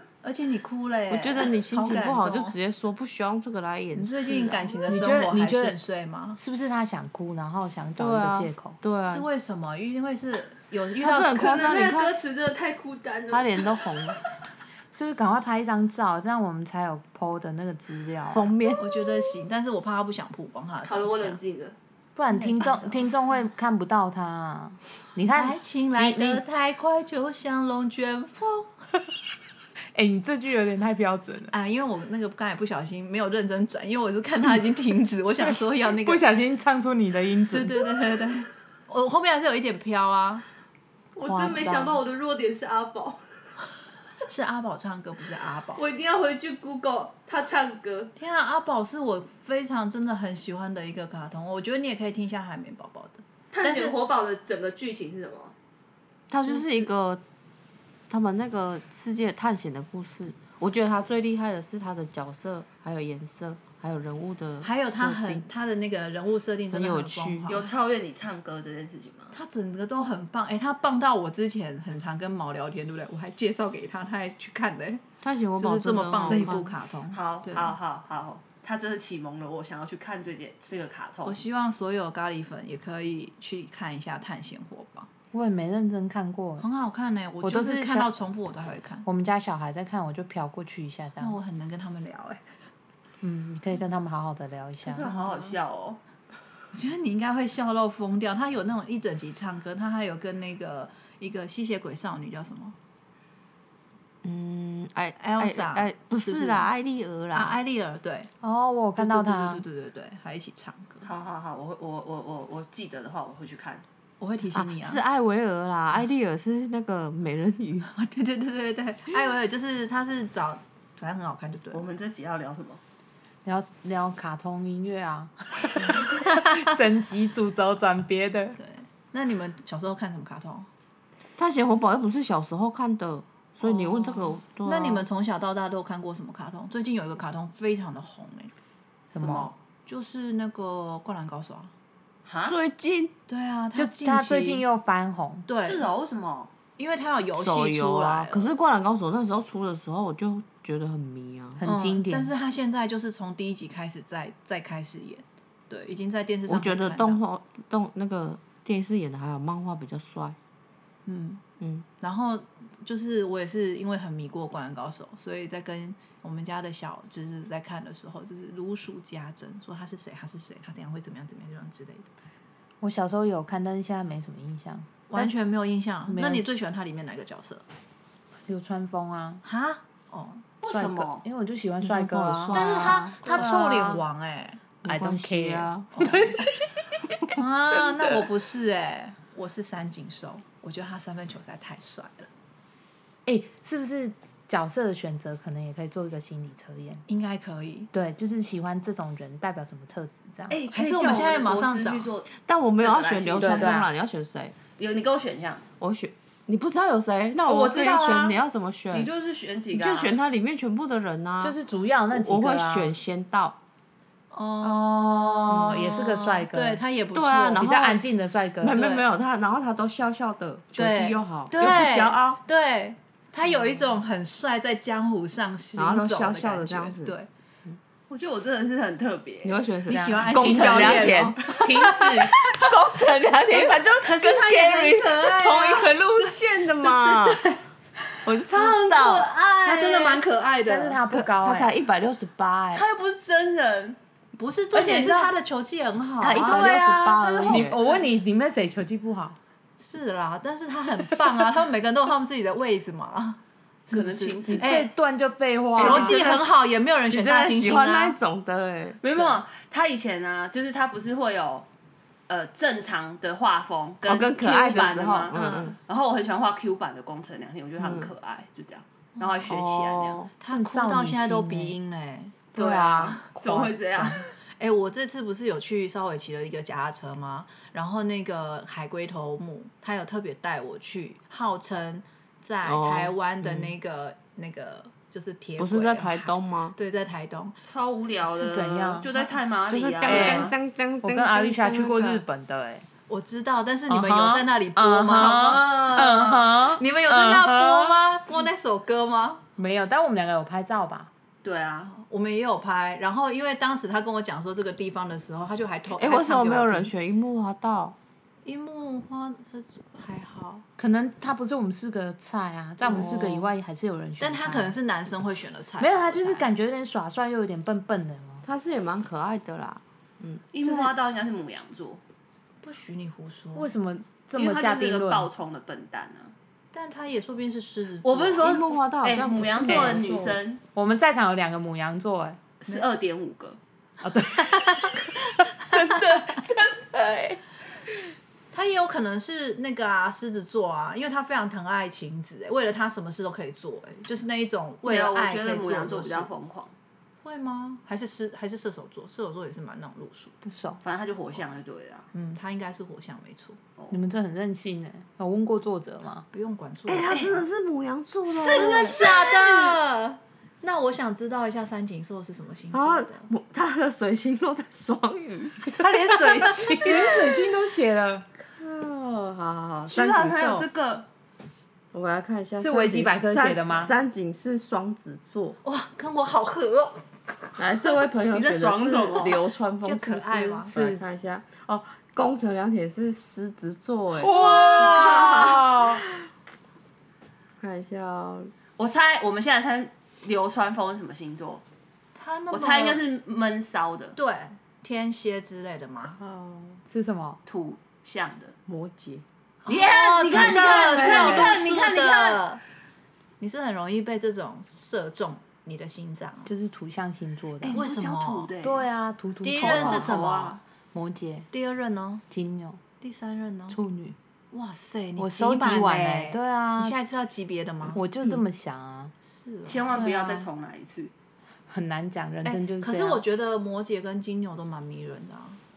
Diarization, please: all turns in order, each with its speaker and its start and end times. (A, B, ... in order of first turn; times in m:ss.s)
0:00.2-0:02.6 A
0:01.1-0:04.8 B
0:03.9-0:06.4 A
0:04.9-0:05.8 C
0:06.4-0:08.8 C
0:08.0-0:09.3 B
0:09.0-0:11.7 A
0:11.0-0:12.2 B
0:11.3-0:13.8 D
0:13.3-0:14.2 B
0:14.9-0:18.5 C
0:18.3-0:18.9 B
0:18.8-0:21.4 A
0:20.8-0:21.8 D
0:22.2-0:26.4 C
0:22.3-0:23.1 A
0:25.3-0:28.7 A
0:29.9-0:31.5 C
0:31.5-0:36.2 A
0:36.0-0:37.8 C
0:37.5-0:40.4 A
0:41.1-0:43.2 D
0:41.2-0:42.0 C
0:44.3-0:45.8 A
0:45.7-0:48.1 D
0:48.2-0:54.0 A
0:53.5-0:55.5 D
0:56.3-0:57.2 B
0:56.5-0:56.8 A
0:58.1-1:05.5 B
1:04.6-1:07.8 A
1:06.7-1:07.6 B
1:07.5-1:09.4 D
1:09.3-1:15.0 A
1:15.2-1:16.7 B
1:15.6-1:17.7 A
1:17.1-1:21.4 D
1:21.2-1:25.1 A
1:25.3-1:26.6 C
1:26.6-1:29.0 A
1:27.4-1:28.1 C
1:29.0-1:31.4 C
1:31.2-1:32.4 A
1:33.2-1:35.1 C
1:34.8-1:36.0 D
1:35.0-1:35.6 A
1:36.7-1:42.8 A
1:44.2-1:47.6 B
1:45.2-1:46.7 A
1:47.3-1:48.3 A
1:48.4-1:49.6 C
1:49.0-1:51.0 A
1:51.0-1:53.8 D
1:54.2-1:55.0 A
1:54.5-1:57.9 B
1:57.9-2:01.9 A
2:01.7-2:02.8 D
2:03.4-2:08.6 C
2:08.6-2:10.7 A
2:11.4-2:15.1 B
2:13.6-2:18.5 A
2:19.1-2:19.5 C
2:19.2-2:19.5 D
2:19.3-2:21.7 A
2:22.2-2:22.5 D
2:22.4-2:23.1 B
2:23.3-2:24.6 A
2:23.7-2:25.5 C
2:25.5-2:25.9 A
2:25.6-2:26.5 D
2:26.8-2:28.5 A
2:27.4-2:31.6 B
2:31.6-2:32.3 C
2:31.6-2:37.2 A
2:36.5-2:40.4 B
2:41.0-2:41.4 A
2:41.6-2:41.8 B
2:42.0-2:52.1 A
2:52.8-2:55.3 C
2:55.1-2:57.6 A
2:56.1-2:56.4 C
2:58.5-2:59.4 C
2:59.4-3:00.5 A
3:00.6-3:01.2 D
3:00.6-3:04.0 C
3:01.8-3:03.5 B
3:02.5-3:04.6 A
3:04.8-3:06.2 B
3:04.8-3:06.2 C
3:05.9-3:06.5 A
3:07.3-3:12.3 A
3:07.7-3:08.3 B
3:13.2-3:17.0 C
3:17.1-3:17.9 A
3:17.9-3:20.6 C
3:20.5-3:23.7 D
3:20.7-3:22.1 A
3:22.4-3:24.5 B
3:23.4-3:23.9 C
3:24.8-3:25.7 D
3:25.8-3:29.1 B
3:27.4-3:28.4 D
3:28.9-3:30.2 D
3:29.7-3:31.6 B
3:31.4-3:33.0 C
3:32.1-3:33.6 B
3:34.3-3:37.8 A
3:34.6-3:36.8 C
3:35.5-3:35.9 B
3:37.1-3:38.0 B
3:37.6-3:38.8 C
3:38.6-3:42.4 B
3:38.7-3:39.1 A
3:40.8-3:47.3 A
3:45.8-3:47.1 B
3:48.1-3:49.6 D
3:49.4-3:51.4 B
3:49.9-3:52.6 A
3:49.9-3:52.3 C
3:52.2-3:57.4 B
3:53.5-3:57.6 A
3:58.2-3:59.3 B
3:58.5-4:00.2 D
3:59.6-4:01.0 A
4:00.6-4:01.7 C
4:01.1-4:02.8 B
4:02.7-4:04.0 D
4:04.4-4:06.6 A
4:04.7-4:05.2 C
4:06.2-4:07.8 B
4:06.3-4:08.0 D
4:06.5-4:06.7 C
4:07.4-4:09.4 C
4:09.8-4:14.9 A
4:13.9-4:14.8 D
4:14.5-4:16.2 C
4:15.7-4:18.2 A
4:15.8-4:16.4 D
4:15.8-4:16.3 B
4:17.1-4:19.0 B
4:19.0-4:21.7 D
4:22.3-4:30.3 D
4:24.0-4:25.8 B
4:25.3-4:25.7 A
4:27.8-4:28.1 B
4:29.5-4:30.3 B
4:30.4-4:32.5 A
4:30.4-4:31.8 C
4:32.5-4:34.2 C
4:32.5-4:34.3 D
4:34.6-4:47.6 A
4:42.6-4:43.7 B
4:45.6-4:46.8 B
4:47.6-4:50.5 D
4:48.0-4:49.1 C
4:49.0-4:49.4 A
4:49.7-4:52.0 B
4:50.0-4:50.5 C
4:51.0-4:52.9 C
4:51.7-4:52.2 A
4:53.1-4:59.4 A
4:53.9-4:58.0 C
4:55.1-4:56.4 D
4:59.6-5:01.1 C
5:01.4-5:01.9 D
5:01.9-5:06.9 A
5:06.0-5:08.0 B
5:08.4-5:10.6 A
5:10.8-5:14.7 C
5:12.8-5:13.5 B
5:14.2-5:16.5 A
5:15.8-5:18.4 C
5:18.4-5:20.4 B
5:20.5-5:22.0 D
5:20.6-5:20.9 C
5:22.6-5:23.7 A
5:23.6-5:25.3 C
5:24.4-5:26.3 D
5:26.7-5:28.5 A
5:28.0-5:30.6 D
5:28.4-5:30.0 B
5:29.6-5:32.4 C
5:32.6-5:33.6 D
5:34.0-5:36.5 C
5:38.5-5:46.3 A
5:44.8-5:46.7 D
5:47.2-5:50.4 A
5:50.4-5:50.8 C
5:50.8-5:52.1 D
5:52.1-5:53.6 A
5:53.9-5:56.2 C
5:56.3-5:57.4 A
5:56.9-5:59.5 B
5:57.1-5:57.4 D
5:58.3-6:03.3 A
5:58.4-5:59.7 D
6:02.7-6:05.9 B
6:05.7-6:07.2 D
6:06.8-6:08.2 C
6:08.4-6:10.7 B
6:09.9-6:11.1 D
6:11.9-6:15.6 B
6:12.6-6:13.9 C
6:15.6-6:17.0 A
6:17.6-6:26.0 B
6:18.3-6:19.4 D
6:19.1-6:20.7 A
6:20.7-6:21.0 C
6:24.2-6:25.7 D
6:24.3-6:25.4 A
6:24.4-6:26.0 C
6:27.6-6:28.5 B
6:28.8-6:31.6 D
6:32.1-6:33.0 A
6:32.5-6:34.2 D
6:34.2-6:36.2 A
6:36.8-6:37.4 C
6:37.4-6:38.5 D
6:38.7-6:39.2 B
6:39.6-6:42.6 A
6:39.7-6:42.4 D
6:40.3-6:41.6 B
6:43.4-6:46.5 A
6:46.4-6:47.8 C
6:47.6-6:48.8 D
6:47.7-6:48.5 A
6:48.6-6:50.1 C
6:49.4-6:50.6 A
6:49.6-6:50.6 D
6:50.9-6:51.5 C
6:51.5-6:52.2 A
6:52.3-6:52.8 C
6:53.0-6:53.8 A
6:53.7-6:54.2 C
6:54.5-6:58.0 A
6:55.2-6:57.0 C
6:57.9-6:59.1 C
6:59.3-7:00.0 A
6:59.6-7:01.1 D
6:59.9-7:00.5 C
7:01.7-7:03.2 C
7:02.4-7:05.6 A